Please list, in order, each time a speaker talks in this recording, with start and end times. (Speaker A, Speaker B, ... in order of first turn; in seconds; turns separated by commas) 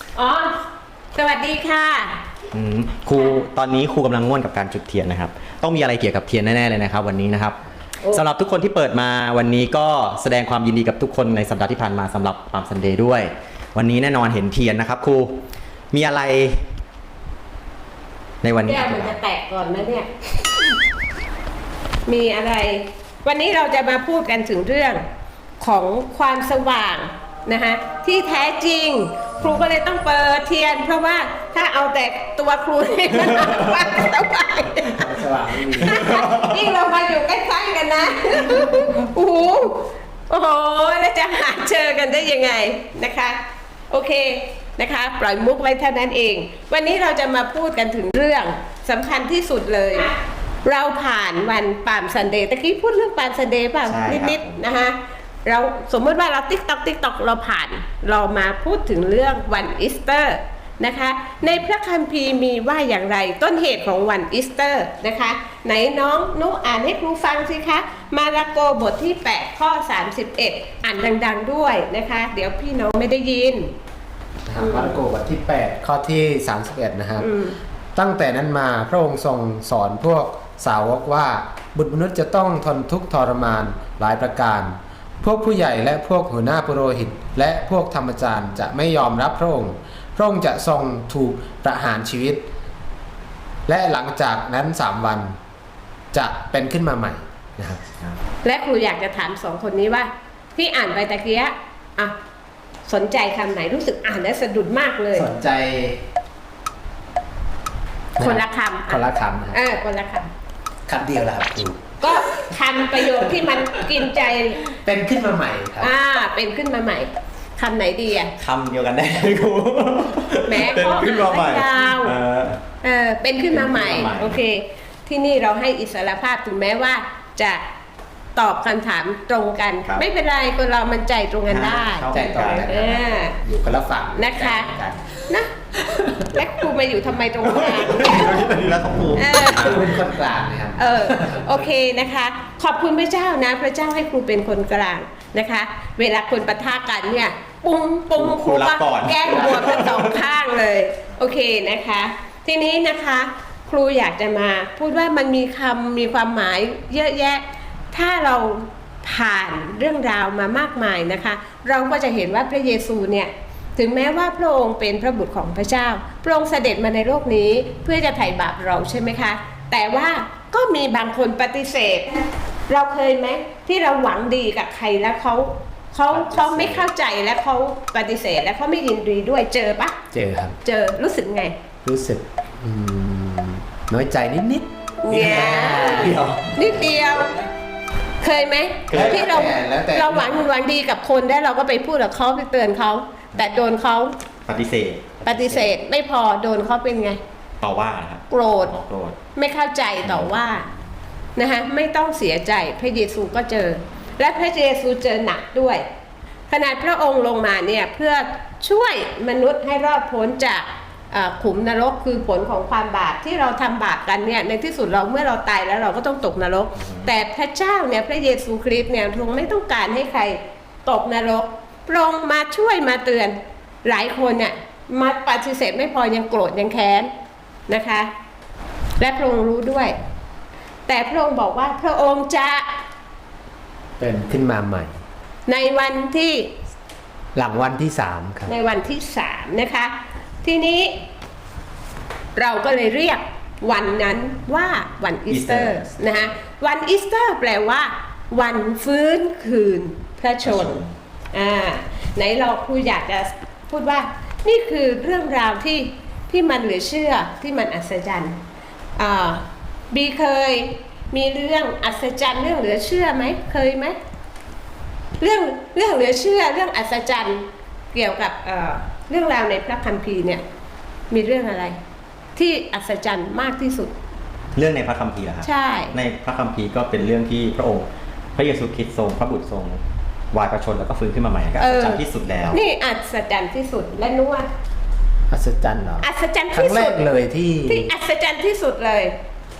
Speaker A: 0.1-0.6, Speaker A: 1.1-2.2, Speaker B: 2.5-7.6, Speaker B: 8.1-15.4, Speaker B: 15.9-16.6, Speaker B: 18.4-19.1, Speaker A: 18.7-20.1, Speaker A: 22.1-25.0, Speaker A: 25.6-35.1, Speaker C: 34.9-36.0, Speaker A: 35.7-50.1, Speaker B: 35.9-36.5, Speaker A: 50.6-73.7, Speaker B: 53.9-54.6, Speaker C: 74.5-77.3, Speaker A: 74.6-74.9, Speaker A: 77.2-77.6, Speaker C: 78.0-92.4, Speaker C: 93.7-95.3, Speaker C: 96.1-97.8, Speaker A: 98.4-102.1, Speaker A: 102.8-105.3, Speaker C: 105.1-106.0, Speaker C: 108.2-109.6, Speaker A: 108.2-110.3, Speaker C: 110.9-112.0, Speaker A: 112.0-114.7, Speaker C: 114.8-115.9, Speaker A: 115.8-118.3, Speaker B: 118.4-122.6, Speaker A: 120.5-122.2, Speaker A: 122.8-127.6, Speaker B: 123.5-124.4, Speaker A: 128.3-133.4, Speaker B: 131.5-132.7, Speaker C: 132.1-135.1, Speaker A: 134.2-134.7, Speaker A: 136.2-138.4, Speaker B: 137.6-139.9, Speaker A: 139.1-139.9, Speaker C: 139.5-141.3, Speaker A: 140.8-180.0, Speaker B: 148.2-150.1, Speaker C: 149.3-149.7, Speaker C: 176.1-176.9, Speaker C: 180.1-180.6, Speaker A: 180.6-181.5, Speaker C: 181.8-184.7, Speaker A: 185.0-187.3, Speaker B: 185.1-186.5, Speaker C: 185.2-186.2, Speaker A: 188.2-194.1, Speaker B: 188.9-189.3, Speaker C: 188.9-190.4, Speaker B: 194.4-195.6, Speaker A: 195.2-197.2, Speaker C: 195.3-195.6, Speaker B: 197.6-199.2, Speaker A: 198.3-198.7, Speaker A: 199.3-200.7, Speaker B: 200.0-200.3, Speaker A: 201.4-205.8, Speaker A: 206.5-227.1, Speaker B: 216.8-217.1, Speaker A: 227.7-228.1, Speaker A: 229.0-229.9, Speaker A: 230.9-232.7, Speaker C: 234.0-234.9, Speaker A: 235.5-236.5, Speaker C: 237.3-238.5, Speaker A: 238.5-240.9, Speaker A: 242.3-250.8, Speaker B: 245.3-246.3, Speaker B: 250.4-250.9, Speaker A: 251.3-258.4, Speaker A: 258.9-264.0, Speaker A: 265.2-270.4, Speaker A: 271.1-271.8, Speaker A: 272.4-273.9, Speaker B: 274.5-279.8, Speaker A: 275.4-275.9, Speaker B: 280.3-282.6, Speaker A: 281.6-284.5, Speaker C: 285.3-287.9, Speaker A: 286.0-287.0, Speaker A: 287.7-289.1